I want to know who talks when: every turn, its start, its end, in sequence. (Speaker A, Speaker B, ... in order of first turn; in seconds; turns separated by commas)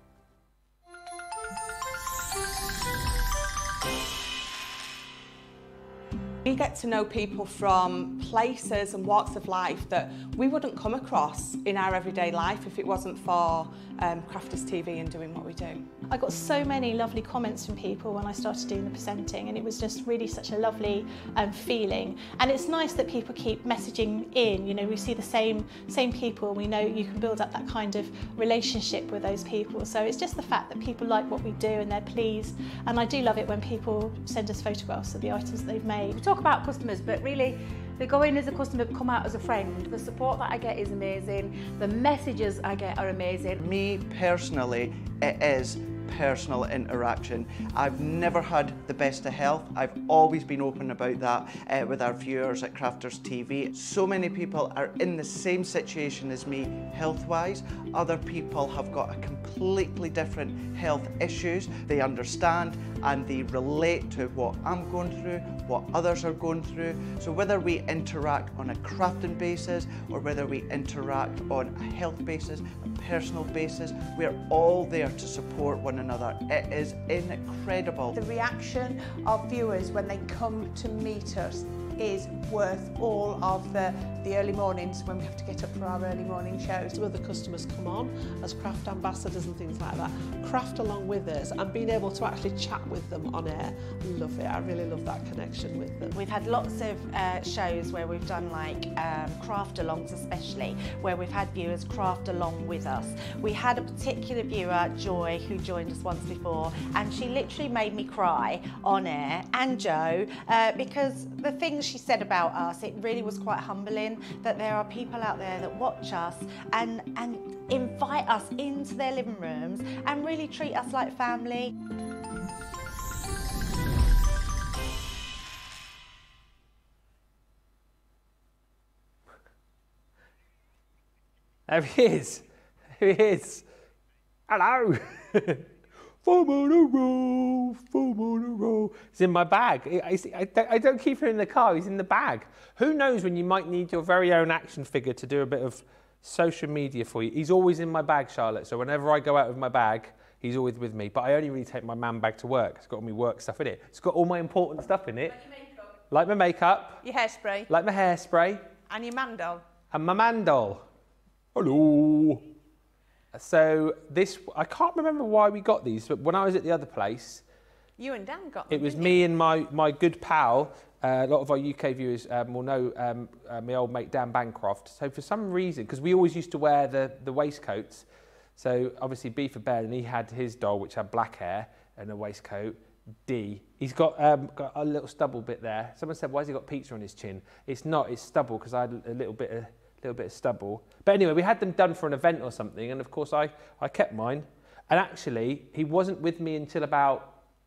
Speaker A: 6.4-15.9, Speaker B: 16.1-36.1, Speaker C: 36.1-43.6, Speaker D: 43.6-78.1, Speaker E: 78.1-86.0, Speaker F: 86.8-96.1, Speaker G: 96.1-121.7, Speaker H: 131.7-133.6, Speaker H: 134.5-135.7, Speaker H: 136.2-157.0, Speaker E: 157.0-157.7, Speaker H: 157.7-158.7, Speaker E: 158.9-159.7, Speaker H: 159.9-160.8, Speaker H: 161.5-162.4, Speaker H: 163.3-167.4, Speaker E: 168.0-169.2, Speaker H: 168.7-178.1, Speaker H: 178.6-197.4